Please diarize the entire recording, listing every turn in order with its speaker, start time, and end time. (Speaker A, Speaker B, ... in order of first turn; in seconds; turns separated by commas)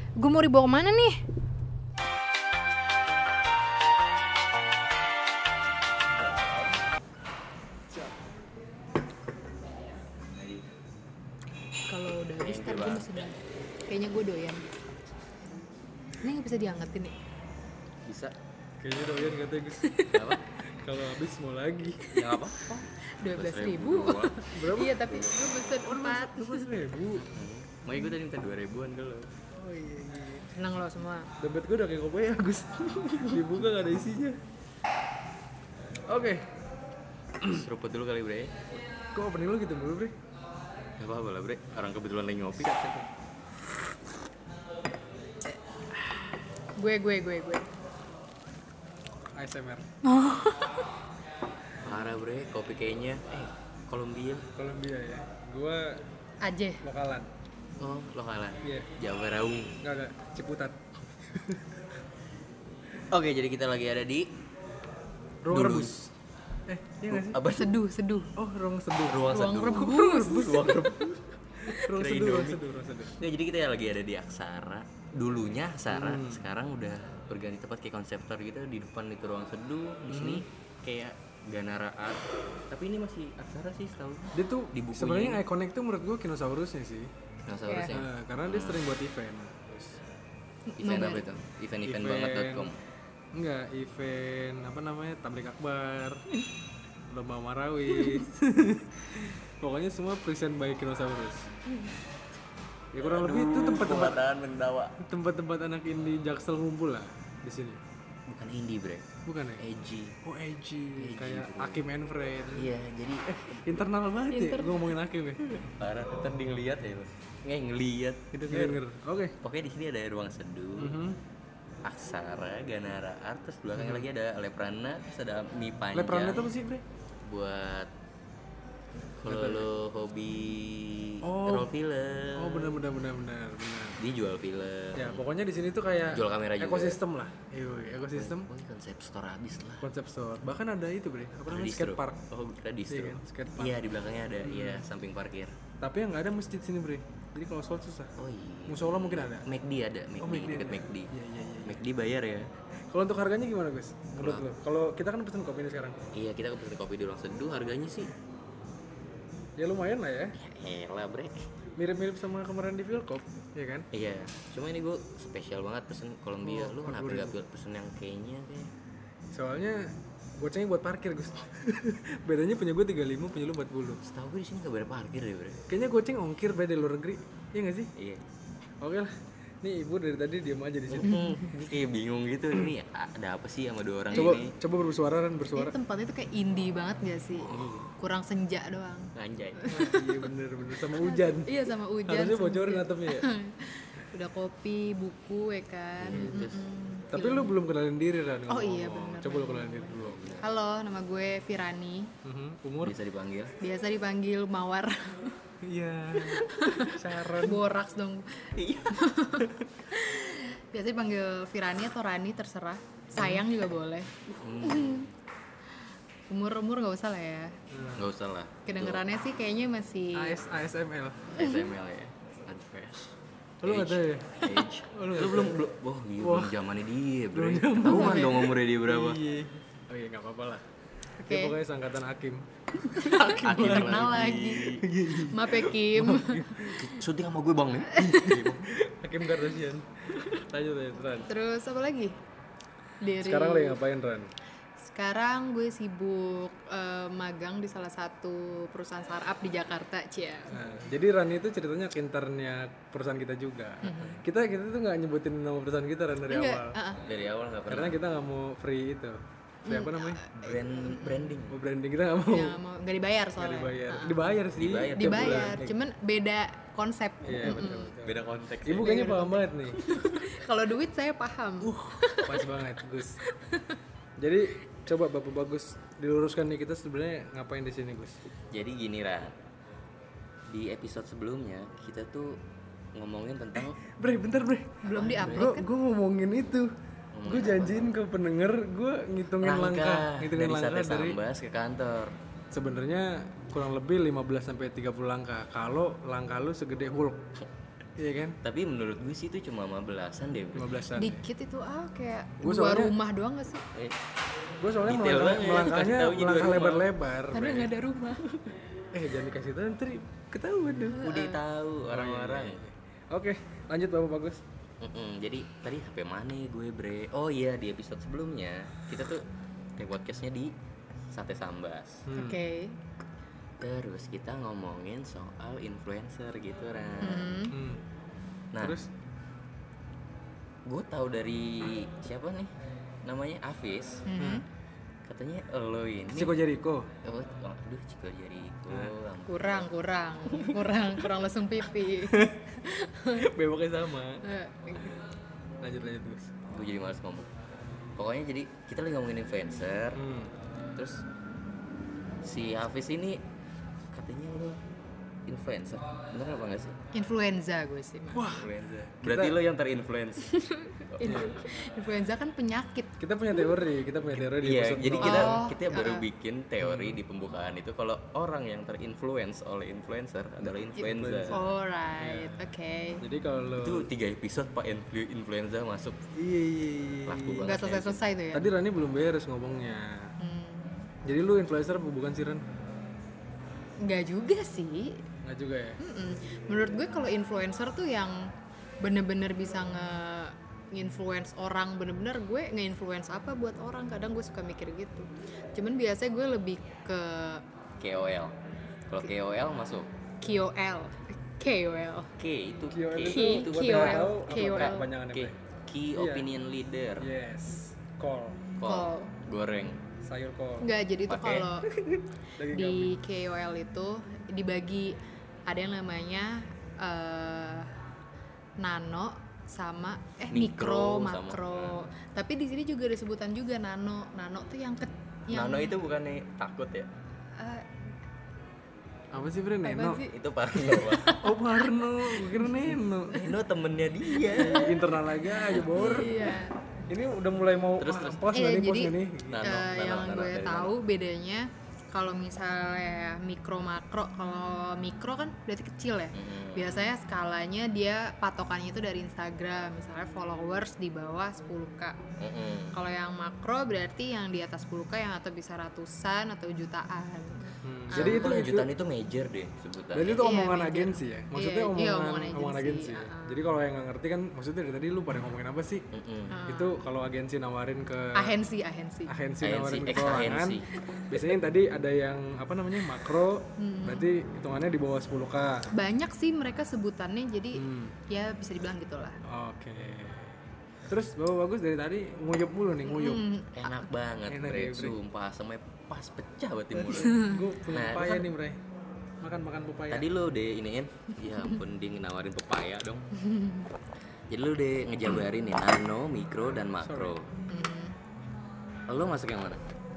Speaker A: 0.2-1.2, Speaker A: 11.9-14.6, Speaker B: 12.4-13.2, Speaker A: 16.2-17.1, Speaker B: 18.0-18.3, Speaker C: 18.8-20.0, Speaker A: 19.8-20.2, Speaker B: 20.1-20.4, Speaker C: 20.7-22.0, Speaker A: 22.1-22.3, Speaker B: 22.1-24.4, Speaker A: 23.2-26.7, Speaker C: 24.4-25.0, Speaker C: 25.8-27.3, Speaker B: 27.3-29.3, Speaker C: 29.6-30.5, Speaker A: 30.5-31.3, Speaker C: 31.4-34.4, Speaker C: 36.1-36.5, Speaker C: 37.4-37.6, Speaker B: 37.4-38.6, Speaker C: 39.1-40.1, Speaker B: 41.0-42.8, Speaker C: 42.6-43.0, Speaker A: 46.8-47.7, Speaker C: 49.4-49.9, Speaker A: 50.0-50.9, Speaker B: 51.8-54.5, Speaker C: 54.5-56.0, Speaker A: 56.4-56.8, Speaker C: 56.8-57.3, Speaker B: 57.8-59.8, Speaker C: 58.6-58.9, Speaker C: 59.8-61.8, Speaker B: 63.1-64.3, Speaker C: 65.4-66.1, Speaker B: 65.5-66.0, Speaker C: 66.7-67.4, Speaker B: 67.1-67.7, Speaker A: 67.5-68.3, Speaker C: 68.3-70.8, Speaker B: 69.1-71.2, Speaker A: 69.2-71.1, Speaker C: 71.7-73.2, Speaker B: 71.7-72.6, Speaker B: 73.1-85.4, Speaker C: 75.9-76.4, Speaker C: 80.1-80.4, Speaker C: 84.3-87.1, Speaker B: 87.5-88.8, Speaker A: 87.6-87.9, Speaker C: 87.9-90.0, Speaker A: 90.7-91.3, Speaker B: 90.8-92.8, Speaker C: 91.8-92.7, Speaker C: 93.3-96.2, Speaker C: 97.1-101.5, Speaker C: 102.9-104.2, Speaker B: 103.0-105.0, Speaker C: 105.0-107.8, Speaker B: 108.3-109.1, Speaker C: 109.2-109.6, Speaker B: 109.6-110.2, Speaker C: 110.2-112.7, Speaker B: 111.0-111.8, Speaker B: 112.5-113.6, Speaker C: 113.2-115.8, Speaker A: 114.3-114.8, Speaker B: 115.8-118.8, Speaker C: 118.3-119.3, Speaker B: 119.4-121.0, Speaker C: 120.8-121.2, Speaker B: 121.8-126.5, Speaker C: 123.8-124.1, Speaker C: 125.9-126.8, Speaker B: 127.2-127.9, Speaker B: 129.2-132.8, Speaker C: 129.2-129.7, Speaker C: 131.2-131.7, Speaker C: 132.3-134.0, Speaker B: 134.0-135.2, Speaker C: 134.9-138.5, Speaker B: 136.1-137.0, Speaker B: 138.1-139.9, Speaker C: 139.8-142.2, Speaker B: 141.5-145.6, Speaker C: 142.9-143.8, Speaker C: 144.4-144.8, Speaker C: 145.8-148.1, Speaker B: 148.2-151.1, Speaker C: 148.7-149.5, Speaker C: 150.2-151.8, Speaker B: 151.7-152.5, Speaker C: 152.9-156.0, Speaker B: 154.2-154.4, Speaker B: 156.1-158.1, Speaker C: 159.6-160.3, Speaker B: 160.4-161.4, Speaker C: 161.8-163.9, Speaker B: 163.9-168.7, Speaker C: 166.4-167.4, Speaker C: 169.3-174.0, Speaker B: 174.0-175.6, Speaker C: 175.7-177.9, Speaker B: 177.9-178.2, Speaker C: 178.8-181.2, Speaker B: 180.9-184.5, Speaker A: 181.1-181.3, Speaker A: 184.1-184.4, Speaker C: 184.1-185.7, Speaker A: 185.5-190.2, Speaker B: 187.5-187.9, Speaker B: 189.2-189.7, Speaker C: 189.7-193.3, Speaker A: 190.9-197.6, Speaker B: 196.0-196.6, Speaker C: 196.1-196.4, Speaker C: 197.1-200.3, Speaker A: 198.5-202.1, Speaker B: 200.0-200.4, Speaker C: 202.2-203.0, Speaker B: 202.8-203.5, Speaker A: 203.6-205.4, Speaker C: 205.6-207.6, Speaker A: 206.5-215.1, Speaker B: 208.6-209.8, Speaker C: 213.2-213.4, Speaker B: 214.3-215.1, Speaker A: 216.3-217.6, Speaker C: 217.7-218.1, Speaker B: 217.9-219.1, Speaker A: 218.6-220.3, Speaker C: 220.1-221.3, Speaker B: 221.3-229.2, Speaker C: 223.6-225.6, Speaker C: 226.2-226.5, Speaker C: 227.3-230.6, Speaker A: 227.8-228.5, Speaker A: 231.2-231.6, Speaker C: 231.2-236.7, Speaker A: 232.8-236.9, Speaker B: 233.3-234.8, Speaker B: 236.5-238.7, Speaker C: 238.7-241.3, Speaker A: 241.3-242.2, Speaker A: 243.0-243.8, Speaker C: 243.2-244.3, Speaker A: 244.8-250.6, Speaker C: 250.5-256.8, Speaker A: 253.8-254.2, Speaker A: 256.3-257.0, Speaker B: 257.0-258.0, Speaker C: 257.7-260.2, Speaker A: 259.6-261.4, Speaker B: 260.4-261.6, Speaker C: 261.5-262.6, Speaker A: 262.3-264.2, Speaker C: 263.4-265.6, Speaker B: 264.6-265.7, Speaker A: 264.9-267.9, Speaker C: 267.2-269.8, Speaker B: 267.4-269.2, Speaker A: 268.8-272.4, Speaker B: 271.6-272.1, Speaker C: 272.2-273.2, Speaker A: 273.2-273.8, Speaker C: 274.2-278.2, Speaker B: 278.5-279.3, Speaker B: 280.5-282.4, Speaker B: 282.9-283.8, Speaker C: 283.6-286.7, Speaker A: 284.8-285.7, Speaker B: 285.0-285.5, Speaker B: 287.1-287.9, Speaker C: 287.2-291.2, Speaker B: 289.4-292.1, Speaker C: 292.5-297.3, Speaker C: 298.0-298.4, Speaker B: 298.4-300.8, Speaker C: 300.5-301.2, Speaker A: 300.9-303.6, Speaker C: 302.4-302.9, Speaker C: 304.6-307.7, Speaker B: 304.9-306.9, Speaker A: 307.3-308.3, Speaker C: 308.9-311.1, Speaker A: 310.9-311.4, Speaker B: 311.0-312.6, Speaker C: 311.9-314.4, Speaker B: 314.8-319.2, Speaker B: 319.8-320.5, Speaker B: 321.1-322.1, Speaker C: 322.1-322.4, Speaker A: 322.1-322.8, Speaker B: 323.6-327.4, Speaker A: 327.0-327.6, Speaker C: 327.5-327.8, Speaker C: 328.6-328.9, Speaker B: 330.6-332.5, Speaker B: 333.0-334.1, Speaker A: 334.1-334.4, Speaker B: 335.0-336.4, Speaker C: 336.1-336.9, Speaker B: 337.0-339.7, Speaker A: 339.3-343.3, Speaker C: 342.1-342.4, Speaker C: 343.1-344.2, Speaker A: 344.2-345.0, Speaker C: 345.6-346.4, Speaker B: 346.5-347.3, Speaker B: 348.0-350.0, Speaker C: 349.9-350.3, Speaker B: 350.8-351.0, Speaker B: 352.2-353.2, Speaker B: 353.9-354.6, Speaker B: 355.3-356.7, Speaker A: 356.9-358.3, Speaker C: 358.1-359.4, Speaker B: 358.3-361.2, Speaker A: 360.4-363.5, Speaker C: 361.1-361.4, Speaker C: 363.0-365.4, Speaker B: 364.1-371.4, Speaker A: 365.0-366.0, Speaker C: 366.6-367.0, Speaker C: 370.4-371.4, Speaker A: 371.3-373.0, Speaker C: 372.0-372.4, Speaker C: 373.0-373.9, Speaker B: 373.6-376.0, Speaker C: 376.1-377.4, Speaker B: 377.0-378.0, Speaker A: 377.4-378.5, Speaker C: 378.3-380.1, Speaker A: 380.2-380.8, Speaker C: 381.0-382.4, Speaker A: 383.8-385.0, Speaker C: 385.2-385.8, Speaker A: 385.8-388.3, Speaker A: 388.8-397.4, Speaker B: 397.8-398.3, Speaker B: 398.9-399.9, Speaker A: 400.2-402.1, Speaker B: 402.2-407.1, Speaker C: 402.7-405.4, Speaker A: 403.1-404.8, Speaker C: 405.9-406.2, Speaker C: 407.0-408.5, Speaker B: 408.6-409.8, Speaker A: 408.6-409.1, Speaker C: 410.0-410.7, Speaker A: 410.6-411.7, Speaker B: 411.1-411.5, Speaker C: 411.8-412.9, Speaker A: 412.5-417.7, Speaker A: 418.6-425.8, Speaker B: 420.3-421.7, Speaker B: 425.3-426.9, Speaker A: 427.4-427.7, Speaker C: 429.1-430.0, Speaker A: 429.6-433.3, Speaker B: 430.1-431.1, Speaker C: 431.2-433.2, Speaker B: 433.1-434.8, Speaker A: 434.1-436.6, Speaker C: 434.3-439.4, Speaker B: 437.8-438.2, Speaker A: 438.3-452.0, Speaker B: 439.3-440.7, Speaker B: 446.1-446.9, Speaker B: 452.2-452.8, Speaker A: 452.7-458.3, Speaker C: 457.6-458.7, Speaker B: 457.9-460.2, Speaker C: 459.9-465.8, Speaker A: 460.1-463.4, Speaker B: 465.9-466.3, Speaker A: 466.3-466.8, Speaker C: 466.5-468.3, Speaker A: 468.1-469.1, Speaker C: 469.1-475.7, Speaker B: 469.4-470.7, Speaker A: 473.6-474.1, Speaker A: 475.7-479.2, Speaker C: 477.6-477.9, Speaker C: 479.2-480.4, Speaker C: 480.9-483.2, Speaker A: 482.9-483.8, Speaker B: 483.5-488.3, Speaker C: 484.3-485.0, Speaker C: 486.7-488.6, Speaker A: 487.0-487.4, Speaker C: 489.2-490.1, Speaker B: 489.9-493.1, Speaker A: 493.2-493.7, Speaker B: 494.3-497.3, Speaker C: 496.8-497.1, Speaker A: 497.5-497.9, Speaker B: 498.9-499.6